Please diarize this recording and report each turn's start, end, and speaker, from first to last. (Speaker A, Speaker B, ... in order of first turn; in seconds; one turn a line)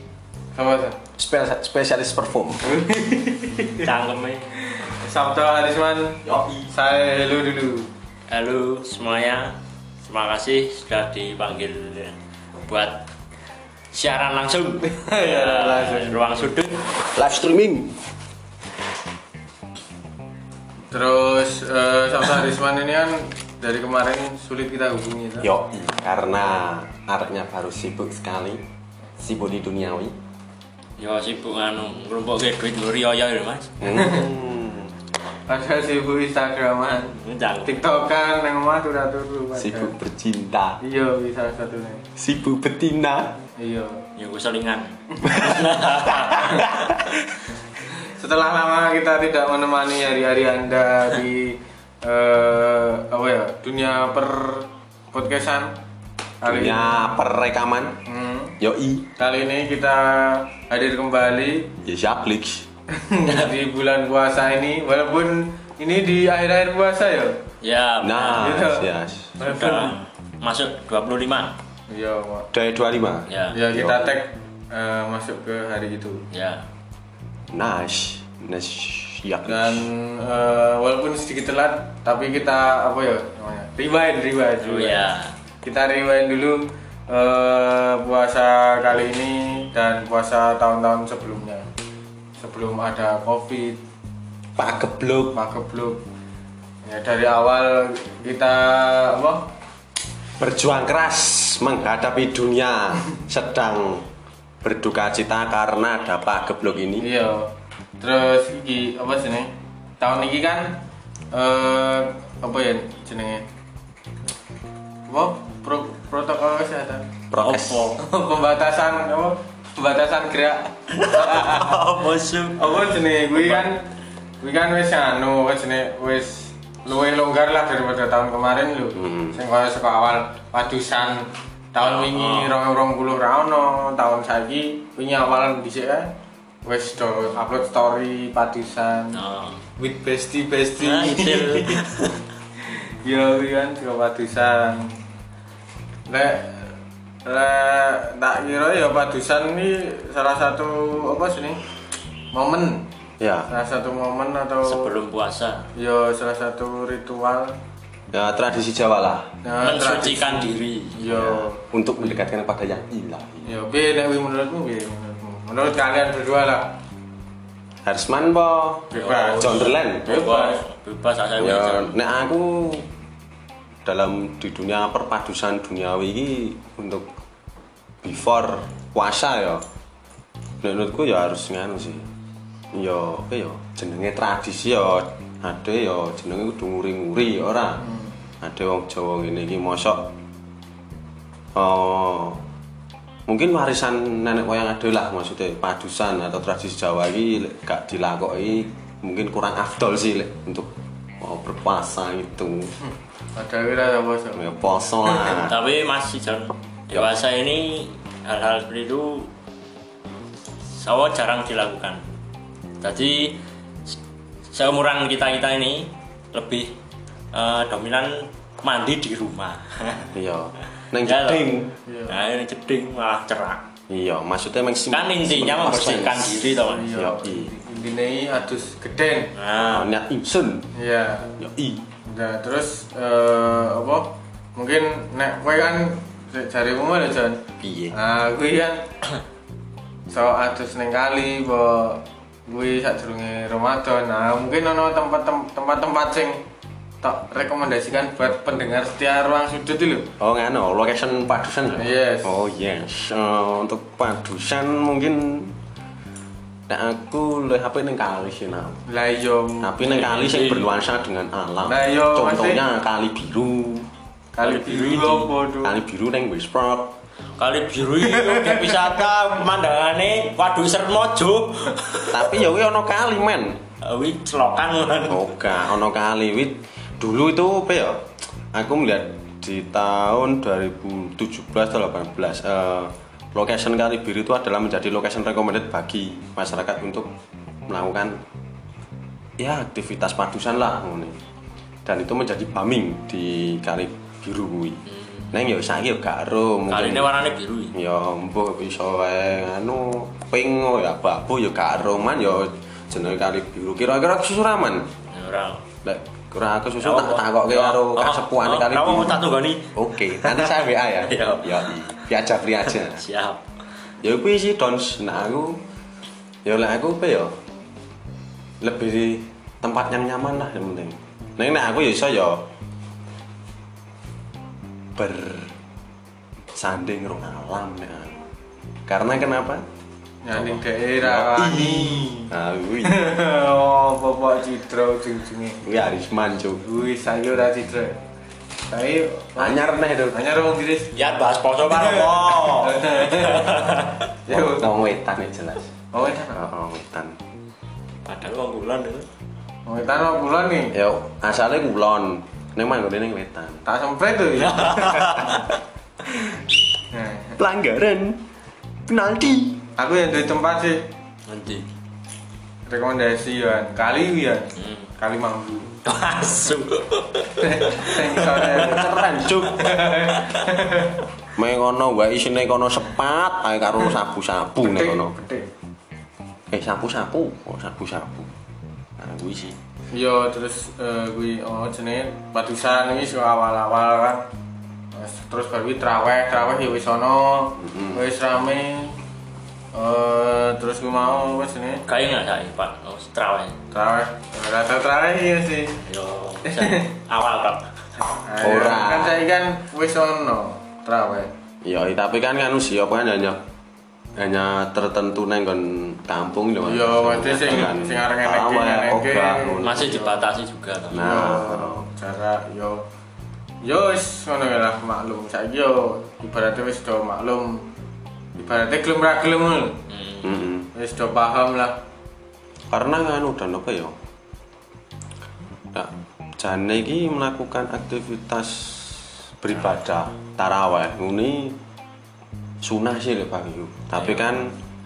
Speaker A: 0.5-1.0
Speaker B: 1.2-2.7
Speaker A: 2.6-3.9
Speaker C: 3.6-4.5
Speaker A: 4.8-7.9
Speaker B: 6.2-6.7
Speaker C: 8.3-13.1
Speaker C: 13.9-16.9
Speaker A: 14.9-16.4
Speaker B: 17.1-18.0
Speaker A: 20.9-25.5
Speaker B: 25.4-28.6
Speaker B: 29.2-30.1
Speaker C: 31.0-33.8
Speaker B: 33.8-34.9
Speaker A: 33.9-34.2
Speaker A: 35.5-39.9
Speaker C: 37.2-37.8
Speaker B: 39.6-40.8
Speaker A: 40.8-42.1
Speaker B: 42.2-43.4
Speaker A: 43.6-44.0
Speaker C: 44.2-47.0
Speaker B: 45.2-45.6
Speaker B: 46.2-47.4
Speaker A: 46.4-46.6
Speaker A: 48.2-55.7
Speaker A: 56.4-57.1
Speaker B: 56.4-58.0
Speaker A: 58.0-58.6
Speaker B: 58.6-59.1
Speaker A: 59.2-61.7
Speaker B: 61.8-62.7
Speaker A: 62.9-67.4
Speaker C: 67.6-68.6
Speaker B: 68.0-69.4
Speaker A: 68.3-68.9
Speaker A: 69.4-70.0
Speaker C: 69.4-71.5
Speaker A: 71.9-72.5
Speaker B: 72.5-74.1
Speaker C: 73.3-73.6
Speaker A: 73.5-76.2
Speaker C: 76.3-76.6
Speaker B: 77.5-79.8
Speaker A: 79.5-85.0
Speaker C: 84.6-85.3
Speaker A: 85.6-91.7
Speaker A: 92.4-93.8
Speaker B: 94.5-95.4
Speaker A: 95.3-96.0
Speaker A: 96.8-99.5
Speaker B: 100.4-104.1
Speaker B: 104.6-107.1
Speaker A: 107.0-113.5
Speaker A: 115.1-117.1
Speaker B: 117.3-118.0
Speaker C: 117.3-118.0
Speaker A: 118.0-121.8
Speaker C: 120.9-122.8
Speaker A: 122.6-123.8
Speaker C: 123.4-123.7
Speaker A: 124.4-136.1
Speaker B: 128.9-129.4
Speaker C: 131.8-132.5
Speaker A: 136.6-139.2
Speaker C: 139.1-139.6
Speaker A: 139.8-142.1
Speaker C: 140.8-142.2
Speaker A: 142.6-145.0
Speaker A: 146.1-151.6
Speaker A: 152.3-152.9
Speaker B: 153.2-153.5
Speaker A: 153.5-154.9
Speaker C: 154.6-155.7
Speaker A: 155.7-157.6
Speaker B: 158.1-159.3
Speaker A: 159.4-161.6
Speaker C: 159.6-161.0
Speaker B: 161.1-163.5
Speaker A: 163.4-166.7
Speaker B: 167.8-170.1
Speaker A: 168.9-170.6
Speaker C: 168.9-172.0
Speaker B: 171.4-172.9
Speaker B: 173.8-177.1
Speaker B: 178.0-179.6
Speaker B: 180.6-182.1
Speaker B: 182.7-187.8
Speaker A: 187.8-188.1
Speaker B: 188.4-190.1
Speaker B: 191.5-192.4
Speaker B: 193.3-202.7
Speaker A: 203.3-205.3
Speaker B: 204.3-205.6
Speaker C: 205.2-209.3
Speaker B: 206.9-207.2
Speaker C: 210.7-212.0
Speaker C: 212.8-213.4
Speaker C: 214.5-216.7
Speaker C: 217.3-220.1
Speaker B: 220.1-221.7
Speaker C: 221.0-223.6
Speaker A: 221.8-222.2
Speaker B: 223.9-227.5
Speaker C: 224.9-226.9
Speaker A: 226.7-229.3
Speaker C: 229.3-229.9
Speaker B: 229.6-230.7
Speaker A: 230.7-231.4
Speaker B: 231.4-231.9
Speaker A: 232.0-238.9
Speaker B: 237.6-237.9
Speaker A: 240.1-246.4
Speaker A: 247.0-250.1
Speaker B: 250.2-255.6
Speaker A: 251.7-252.3
Speaker B: 256.7-258.8
Speaker A: 258.9-259.7
Speaker B: 259.6-263.9
Speaker C: 259.8-260.7
Speaker A: 261.6-262.6
Speaker A: 264.3-265.8
Speaker C: 264.4-265.3
Speaker B: 265.6-266.9
Speaker C: 267.4-272.4
Speaker A: 268.1-269.1
Speaker B: 272.1-273.6
Speaker C: 273.8-275.3
Speaker B: 275.1-287.1
Speaker B: 287.7-288.2
Speaker B: 289.4-291.2
Speaker B: 291.8-297.1
Speaker C: 294.9-295.3
Speaker C: 296.7-297.7
Speaker B: 297.7-304.9
Speaker C: 305.1-305.6
Speaker B: 305.8-313.0
Speaker C: 306.8-311.9
Speaker C: 312.9-313.4
Speaker B: 314.0-315.6
Speaker B: 316.4-317.4
Speaker B: 318.6-322.5
Speaker B: 324.9-325.6
Speaker B: 326.5-328.2
Speaker B: 328.9-329.6
Speaker A: 330.2-332.3
Speaker B: 330.3-333.0
Speaker A: 332.8-335.6
Speaker B: 335.6-336.6
Speaker A: 336.6-338.0
Speaker A: 338.7-341.0
Speaker B: 339.4-340.2
Speaker C: 340.9-344.0
Speaker A: 341.7-344.7
Speaker B: 344.3-347.2
Speaker A: 345.9-346.4
Speaker C: 348.1-349.1
Speaker A: 349.6-350.7
Speaker B: 350.7-353.6
Speaker A: 353.6-355.4
Speaker C: 354.4-355.5
Speaker A: 356.9-357.4
Speaker B: 357.4-358.2
Speaker B: 358.9-359.6
Speaker A: 359.8-360.9
Speaker C: 361.3-361.7
Speaker A: 362.7-365.8
Speaker C: 364.6-364.9
Speaker C: 365.8-368.8
Speaker A: 367.4-368.9
Speaker B: 368.4-369.8
Speaker A: 369.4-370.9
Speaker C: 370.1-370.5
Speaker B: 371.3-375.1
Speaker A: 374.6-375.5
Speaker B: 376.5-378.3
Speaker B: 379.0-379.6
Speaker A: 379.9-384.2
Speaker A: 384.9-389.0
Speaker B: 387.6-388.0
Speaker A: 389.7-391.8
Speaker C: 391.9-393.6
Speaker A: 393.7-395.8
Speaker C: 395.8-397.7
Speaker A: 396.4-396.9
Speaker A: 398.2-401.3
Speaker B: 398.4-399.2
Speaker B: 401.6-403.4
Speaker B: 404.2-409.9
Speaker A: 406.6-410.2
Speaker C: 409.6-411.1
Speaker B: 410.9-411.9
Speaker A: 410.9-412.9
Speaker A: 413.6-417.7
Speaker A: 418.4-419.8
Speaker C: 419.9-420.3
Speaker B: 420.2-420.7
Speaker A: 420.7-421.8
Speaker B: 422.7-424.0
Speaker B: 425.7-431.6
Speaker B: 432.6-434.6
Speaker C: 433.9-434.2